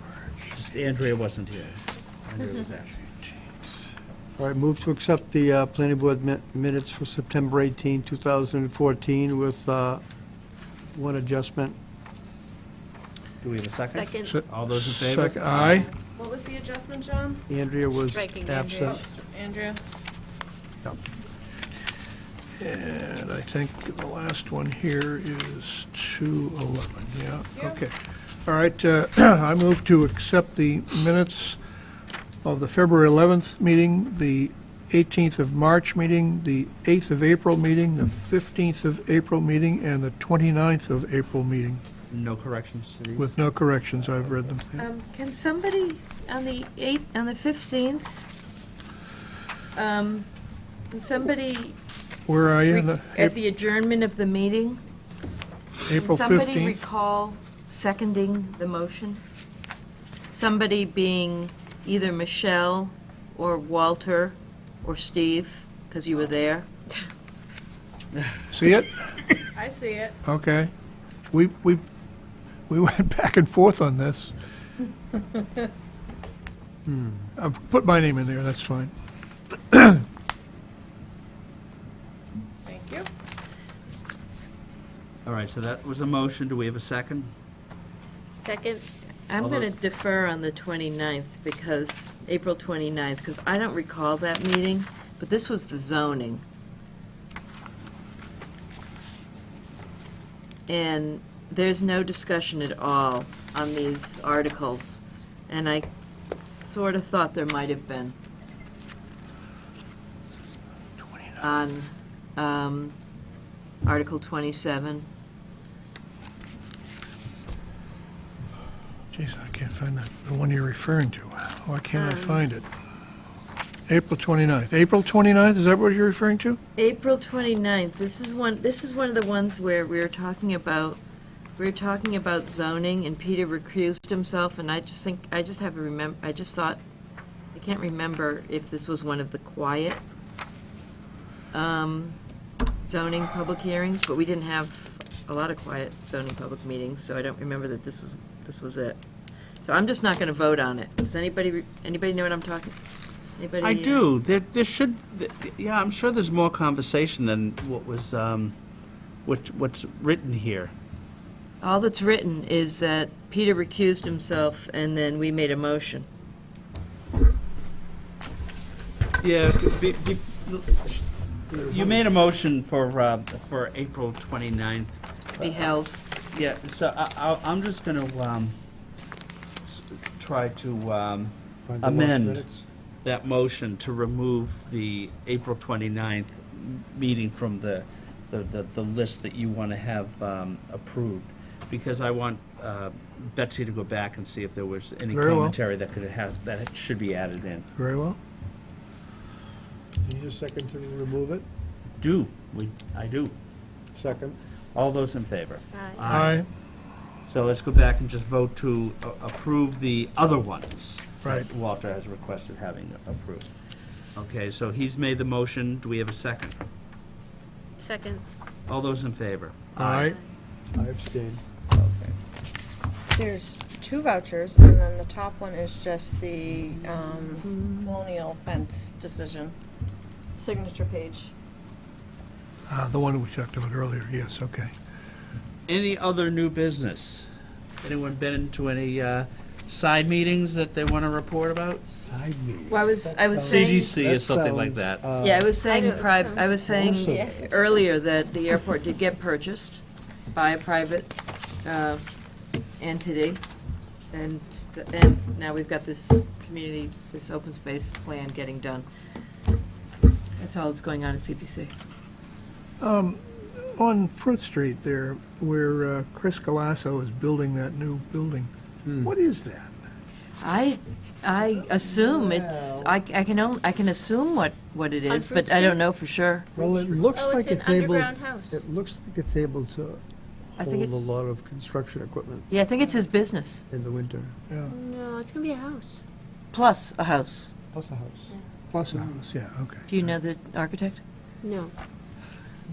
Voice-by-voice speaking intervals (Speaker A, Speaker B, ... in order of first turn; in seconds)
Speaker A: 0.5-3.3, 13.4-15.9, 42.1-43.0, 85.2-87.3, 89.4-89.7, 153.6-158.5, 159.2-160.7, 169.2-175.6, 176.3-178.6, 179.7-182.5, 183.0-197.7, 202.0-203.3, 204.7-206.5, 207.3-213.5, 214.2-216.6, 218.7-220.1, 235.7-237.3, 237.8-241.8, 243.4-245.0
Speaker B: 4.4-10.0, 10.9-11.8, 17.5-19.0, 76.9-77.3, 171.5-172.0, 181.7-182.7, 200.0-201.5, 203.9-204.4, 220.7-221.4, 241.9-245.5, 246.6-247.3, 268.9-269.1, 271.8-273.0, 276.6-280.0, 280.6-282.5, 283.7-284.4, 287.7-288.3, 288.9-289.2
Speaker C: 13.9-14.3, 18.1-19.0, 88.4-88.8, 122.0-122.4, 217.8-218.2, 227.5-227.9, 245.6-247.7, 275.1-275.8, 277.1-278.6, 284.7-286.0, 291.4-291.7
Speaker D: 14.2-15.9, 22.6-31.6, 32.4-41.8, 43.2-44.7, 52.3-53.3, 55.9-56.8, 68.5-69.2, 70.2-70.7, 71.3-71.8, 72.7-74.3, 77.4-78.9, 79.7-80.0, 111.0-111.4, 119.1-122.7, 123.9-126.6, 195.1-195.6, 197.8-198.2, 206.1-206.5, 219.8-220.2, 232.7-234.7, 262.8-268.5, 269.0-269.7, 288.7-289.9
Speaker E: 16.1-17.4, 18.7-19.8, 69.6-70.2, 82.7-83.1, 221.7-222.2, 223.1-229.5, 230.4-231.3
Speaker F: 44.8-48.1, 49.7-50.3, 50.9-51.8, 52.7-54.8, 55.9-59.2, 60.3-66.7, 89.3-96.4, 100.7-105.9, 106.4-108.2, 111.4-113.0, 113.8-115.1, 126.8-131.0, 131.6-136.8, 137.5-140.0, 141.5-142.2, 142.8-149.0, 149.6-152.8, 153.4-154.1, 161.6-166.1, 175.4-176.0, 242.7-243.9, 245.2-252.1, 252.8-253.4, 254.1-258.9, 260.4-261.7, 270.4-277.0, 280.6-280.9, 282.5-283.6, 286.5-287.5, 289.9-291.0